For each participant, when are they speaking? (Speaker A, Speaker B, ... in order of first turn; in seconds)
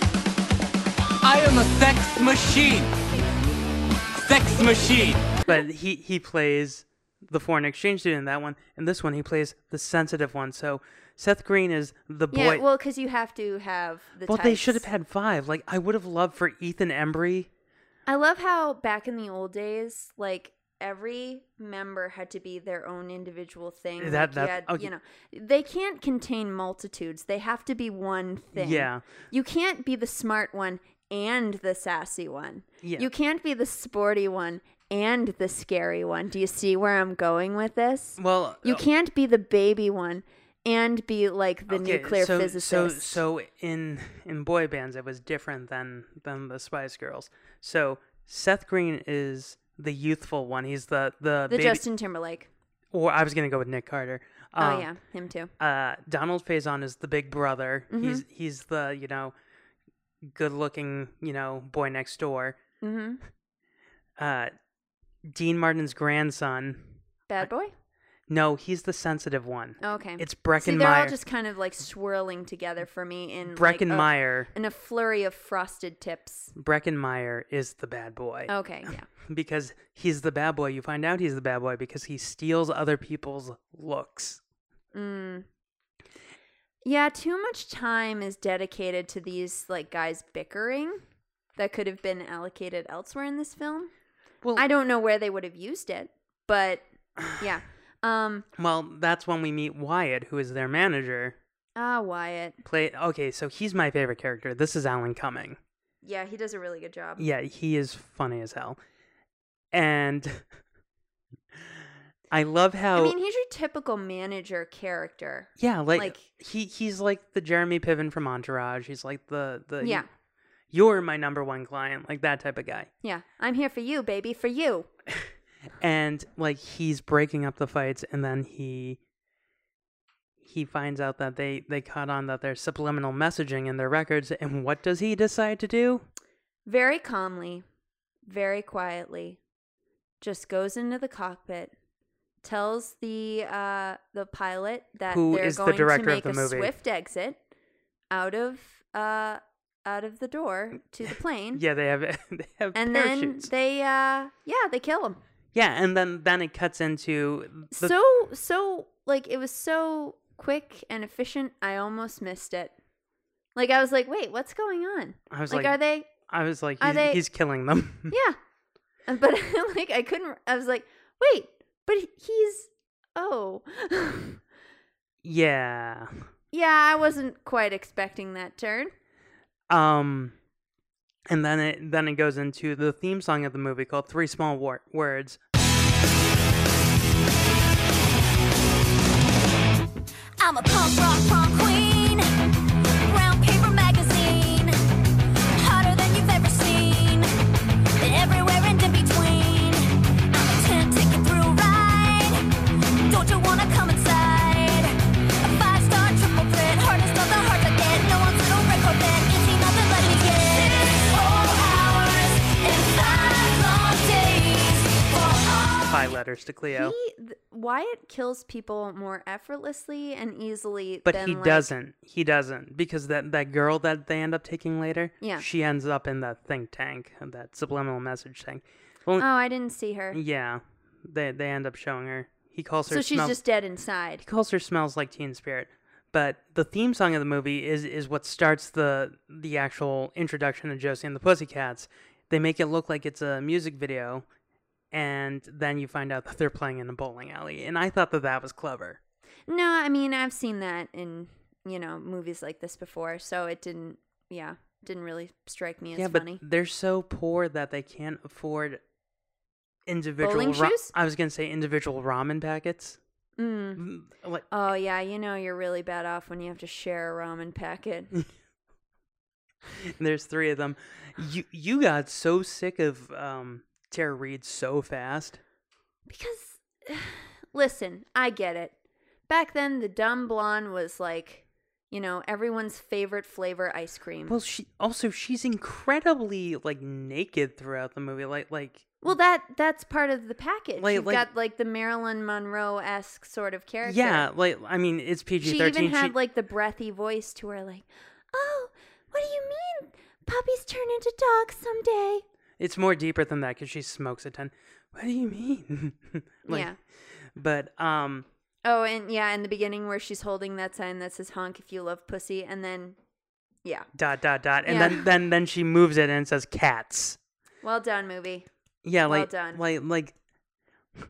Speaker A: 1.2-2.9, 4.2-5.4
Speaker B: 5.5-12.6, 14.2-17.5, 24.0-24.9, 28.5-29.1, 32.8-33.1, 38.2-38.8, 41.7-51.8, 52.9-54.9, 55.6-59.3, 60.2-62.6, 64.2-64.5, 65.2-66.9, 68.3-71.2, 73.5-74.5, 76.5-84.4, 98.6-101.4, 102.6-105.6, 107.2-108.8, 109.7-110.4, 112.3-113.1, 115.6-120.0, 120.7-122.9, 125.8-129.0, 130.4-136.1, 145.1-146.7, 151.5-153.5, 155.5-157.9, 165.3-168.1, 175.2-176.2, 179.7-180.3, 181.3-185.4, 215.9-216.9, 221.0-229.3, 230.1-233.4, 234.2-244.2, 244.9-249.0, 255.9-258.8, 259.9-263.0, 263.8-264.4, 269.8-275.4, 284.3-289.1, 290.8-291.3, 293.8-296.1, 302.6-306.7, 307.4-308.2, 313.9-317.2, 318.8-320.1
Speaker C: 12.3-14.8, 18.1-43.2, 51.5-52.5, 54.6-55.5, 57.9-58.2, 62.8-63.2, 67.3-67.7, 69.8-76.5, 78.5-79.1, 84.9-85.5, 86.8-91.0, 91.5-93.9, 94.5-98.5, 101.8-102.6, 106.0-107.2, 112.9-116.3, 119.8-120.0, 123.0-124.9, 136.7-137.6, 138.2-139.4, 140.2-141.7, 142.4-147.4, 148.1-151.6, 152.7-155.2, 157.8-162.7, 163.5-166.2, 166.8-167.2, 168.1-168.4, 169.1-174.4, 176.5-178.9, 216.7-221.7, 229.2-230.2, 232.9-234.2, 249.5-256.4, 260.2-260.9, 263.4-263.8, 264.5-268.1, 276.1-278.7, 279.3-284.4, 289.0-294.3, 295.4-302.2, 306.5-306.8, 308.6-312.9, 314.6-315.1, 317.6-318.5, 319.1-319.6
Speaker D: 190.4-192.3, 193.0-194.8, 195.5-197.3, 198.0-202.4, 203.1-216.1